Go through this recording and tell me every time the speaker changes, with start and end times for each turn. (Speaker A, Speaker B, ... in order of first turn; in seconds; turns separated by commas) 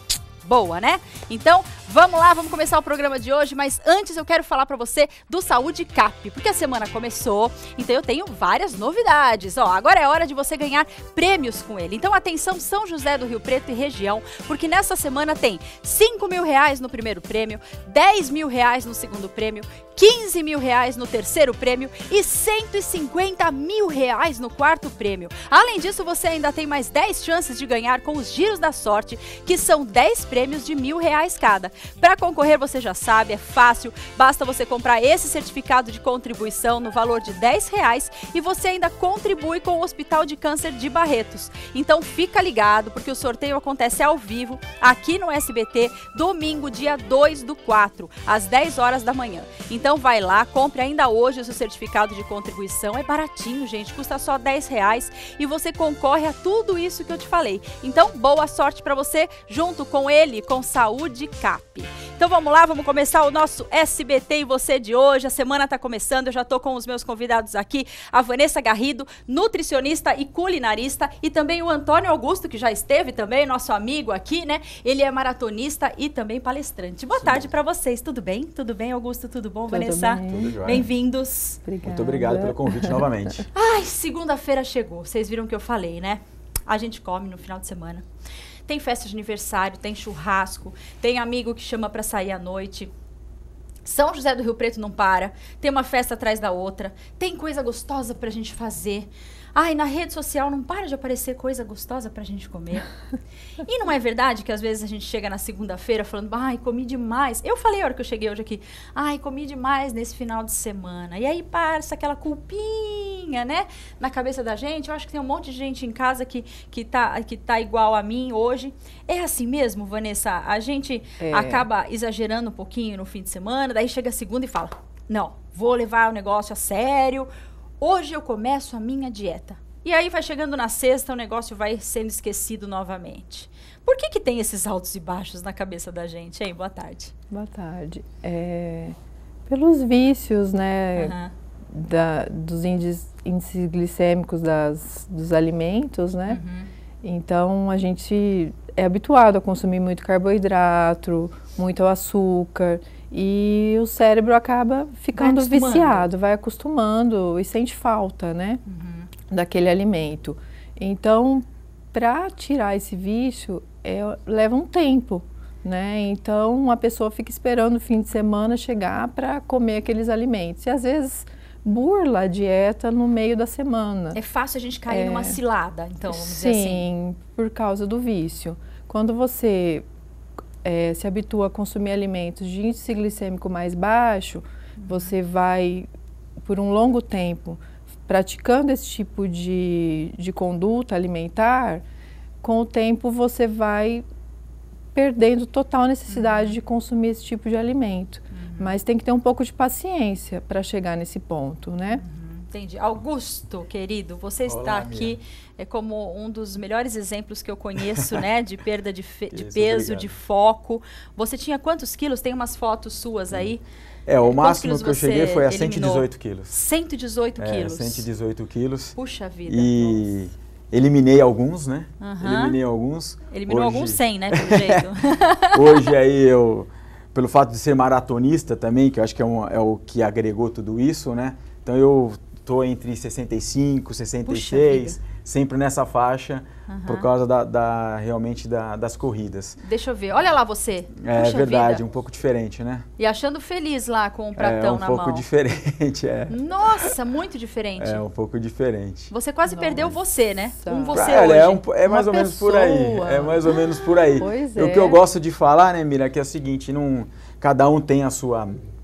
Speaker A: 0.4-81.6, Speaker B: 77.2-77.5, Speaker C: 79.7-80.8, Speaker B: 80.3-80.9, Speaker C: 81.7-83.4, Speaker B: 81.8-83.5, Speaker A: 83.5-88.0, Speaker A: 88.7-92.9, Speaker A: 93.8-102.9, Speaker A: 103.6-127.3, Speaker C: 121.2-121.7, Speaker A: 127.8-137.1, Speaker C: 137.3-141.1, Speaker A: 141.0-141.3, Speaker C: 141.7-146.4, Speaker A: 146.3-146.7, Speaker C: 147.0-158.6, Speaker A: 155.2-156.1, Speaker A: 158.7-159.1, Speaker C: 159.3-174.2, Speaker A: 174.1-176.8, Speaker C: 174.9-175.4, Speaker C: 176.1-179.8, Speaker C: 180.6-185.9, Speaker A: 184.8-185.1, Speaker C: 186.4-191.8, Speaker C: 192.4-194.1, Speaker C: 194.9-202.0, Speaker A: 196.1-196.6, Speaker A: 198.3-198.7, Speaker A: 202.0-213.6, Speaker B: 204.5-205.2, Speaker B: 209.3-210.1, Speaker B: 214.1-216.5, Speaker A: 214.3-218.1, Speaker B: 217.4-218.9, Speaker A: 219.0-220.1, Speaker B: 219.5-224.8, Speaker A: 222.0-222.6, Speaker A: 223.3-225.9, Speaker B: 225.5-239.6, Speaker A: 234.3-235.0, Speaker A: 236.7-237.1, Speaker A: 239.6-241.8, Speaker B: 241.0-242.9, Speaker A: 243.0-245.2, Speaker B: 244.4-246.4, Speaker A: 246.3-248.0, Speaker B: 247.8-249.1, Speaker A: 249.1-251.6, Speaker C: 249.5-249.9, Speaker C: 250.5-251.1, Speaker B: 250.9-258.6, Speaker C: 251.9-255.0